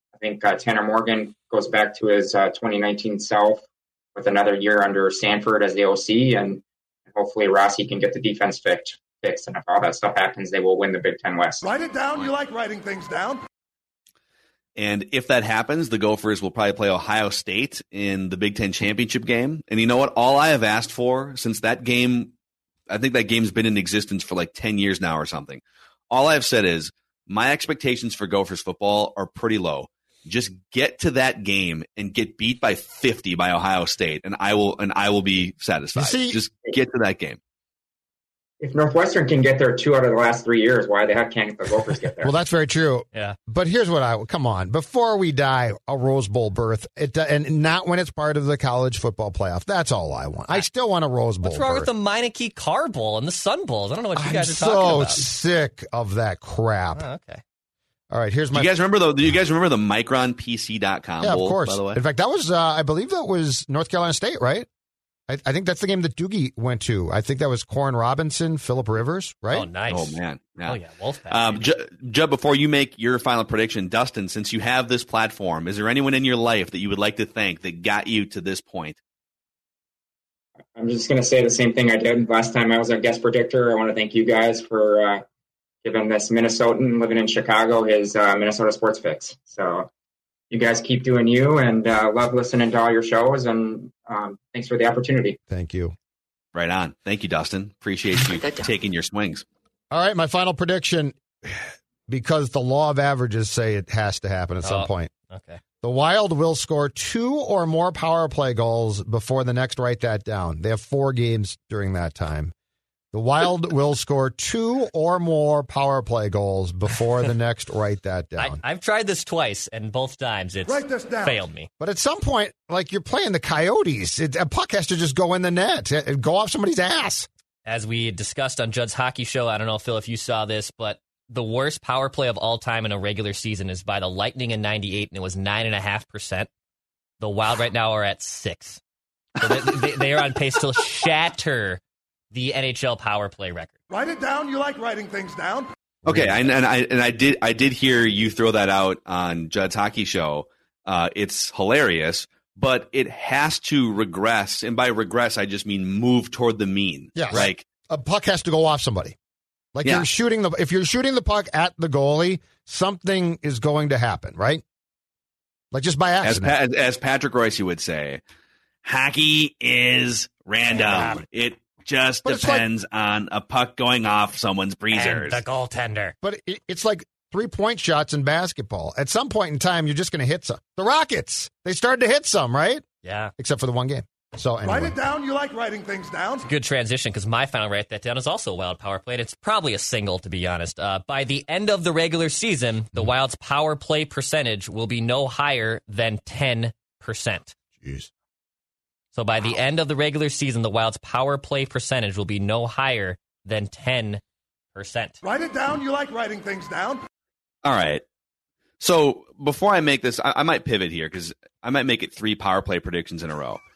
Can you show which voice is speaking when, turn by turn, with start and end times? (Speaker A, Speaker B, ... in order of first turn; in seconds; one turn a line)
Speaker A: 0.1-11.6
Speaker B: 11.6-13.4
Speaker C: 14.8-22.3
Speaker C: 22.9-37.4
Speaker D: 36.0-36.4
Speaker A: 38.6-42.3
Speaker D: 42.2-51.9
Speaker E: 51.4-55.2
Speaker D: 54.1-57.0
Speaker E: 57.0-57.4
Speaker D: 58.1-58.7
Speaker C: 58.5-62.0
Speaker D: 61.2-64.7
Speaker D: 65.3-69.7
Speaker E: 69.5-71.7
Speaker C: 69.9-70.8
Speaker C: 71.3-79.0
Speaker A: 80.7-85.2
Speaker A: 85.8-89.9
Speaker A: 90.5-95.4
Speaker D: 95.5-95.9
Speaker C: 96.5-99.4
Speaker D: 99.9-105.1
Speaker E: 104.6-105.6
Speaker D: 105.8-112.5
Speaker D: 113.1-118.6
Speaker E: 118.4-121.7
Speaker B: 120.7-121.4
Speaker D: 121.8-127.3
Speaker E: 127.7-136.5
Speaker E: 137.2-138.8
Speaker E: 139.4-141.8
Speaker E: 142.3-143.8
Speaker B: 143.9-145.7
Speaker C: 146.0-157.6
Speaker D: 157.2-159.2
Speaker D: 159.7-164.6
Speaker D: 165.7-166.5
Speaker C: 166.2-168.2
Speaker C: 168.8-175.4
Speaker D: 170.7-171.2
Speaker D: 172.2-172.7
Speaker E: 174.9-176.1
Speaker D: 176.2-184.9
Speaker E: 183.0-183.3
Speaker B: 184.6-186.5
Speaker E: 186.5-197.5
Speaker D: 197.8-198.1
Speaker E: 199.1-204.2
Speaker E: 204.7-205.2
Speaker B: 205.2-207.0
Speaker C: 207.6-208.0
Speaker C: 208.8-213.6